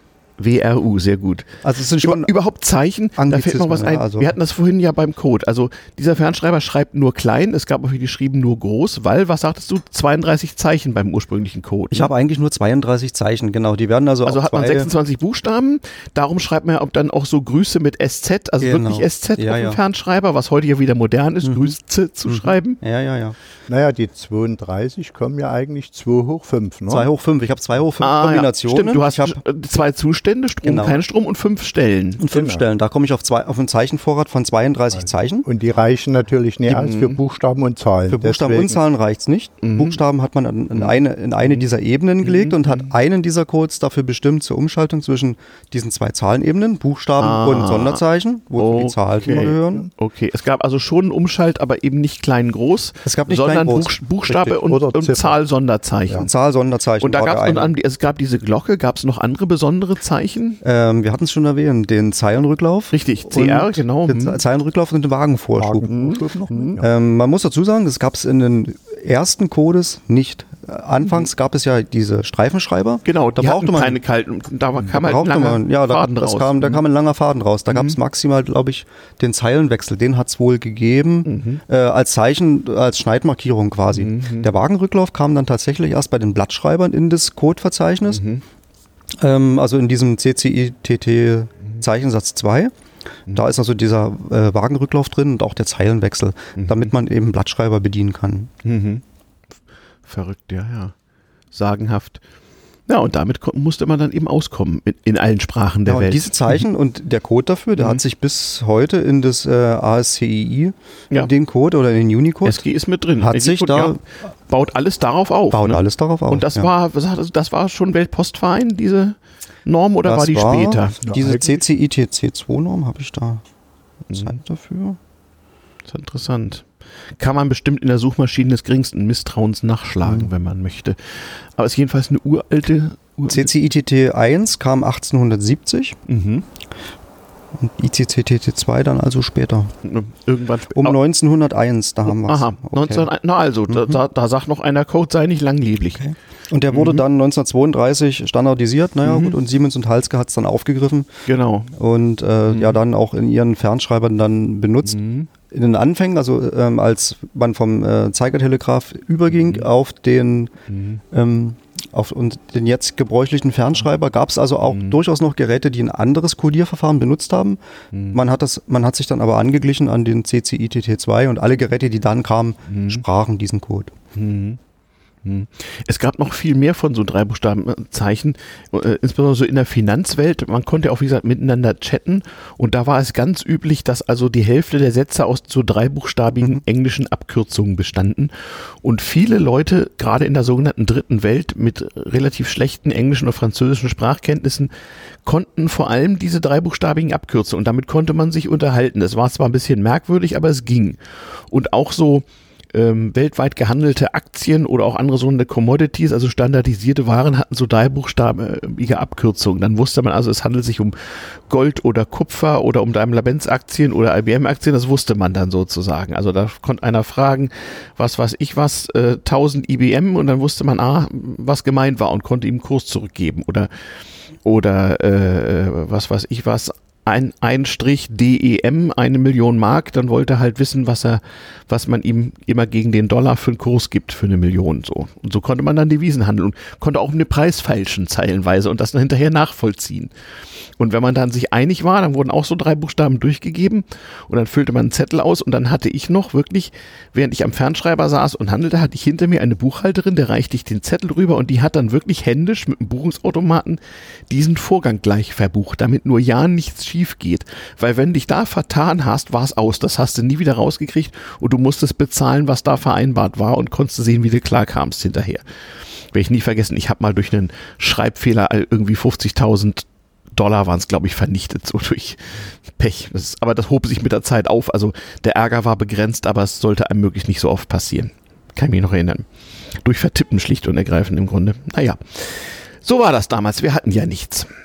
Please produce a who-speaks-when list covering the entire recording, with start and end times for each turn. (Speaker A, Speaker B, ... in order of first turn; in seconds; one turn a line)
Speaker A: 0.4-12.1
Speaker B: 1.6-2.3
Speaker B: 3.2-4.3
Speaker B: 11.9-14.9
Speaker A: 14.2-22.8
Speaker B: 18.6-19.8
Speaker B: 21.4-21.7
Speaker B: 22.3-23.4
Speaker C: 23.7-27.1
Speaker B: 26.9-29.4
Speaker A: 28.0-32.2
Speaker B: 30.6-31.0
Speaker B: 32.2-35.5
Speaker C: 32.3-32.6
Speaker C: 34.9-38.8
Speaker A: 36.7-37.2
Speaker B: 38.1-49.9
Speaker A: 39.6-40.0
Speaker A: 40.8-41.7
Speaker A: 42.2-42.9
Speaker A: 47.2-48.0
Speaker A: 48.6-56.3
Speaker B: 53.0-53.9
Speaker C: 54.3-55.3
Speaker B: 56.1-57.7
Speaker A: 57.0-60.6
Speaker B: 60.6-65.9
Speaker A: 62.9-64.4
Speaker C: 65.6-66.8
Speaker B: 66.8-74.0
Speaker A: 73.0-76.8
Speaker B: 74.9-88.2
Speaker A: 77.7-78.0
Speaker A: 81.2-81.6
Speaker A: 83.9-84.5
Speaker A: 88.1-88.4
Speaker B: 89.2-92.7
Speaker B: 93.3-98.5
Speaker A: 96.6-96.9
Speaker A: 98.6-99.0
Speaker A: 100.1-100.9
Speaker A: 101.5-102.2
Speaker A: 102.9-106.6
Speaker B: 105.8-112.6
Speaker A: 112.4-121.0
Speaker B: 113.2-114.0
Speaker B: 115.5-116.7
Speaker B: 120.0-123.4
Speaker C: 121.0-121.6
Speaker B: 124.1-125.0
Speaker A: 125.9-133.5
Speaker B: 133.3-136.0
Speaker A: 136.1-136.4
Speaker B: 137.6-139.7
Speaker A: 139.8-141.0
Speaker B: 140.7-143.1
Speaker A: 142.1-146.0
Speaker B: 143.7-144.0
Speaker B: 146.0-151.1
Speaker A: 146.7-147.0
Speaker A: 149.0-149.3
Speaker A: 151.3-151.7
Speaker B: 151.7-160.5
Speaker A: 152.5-152.8
Speaker A: 154.8-155.3
Speaker A: 159.3-159.7
Speaker A: 160.7-161.0
Speaker B: 161.1-167.6
Speaker A: 164.7-165.0
Speaker B: 168.1-173.9
Speaker A: 172.7-173.0
Speaker A: 174.1-174.6
Speaker A: 175.2-194.7
Speaker A: 195.2-223.7
Speaker A: 224.4-240.1
Speaker A: 240.8-265.4
Speaker A: 266.0-284.5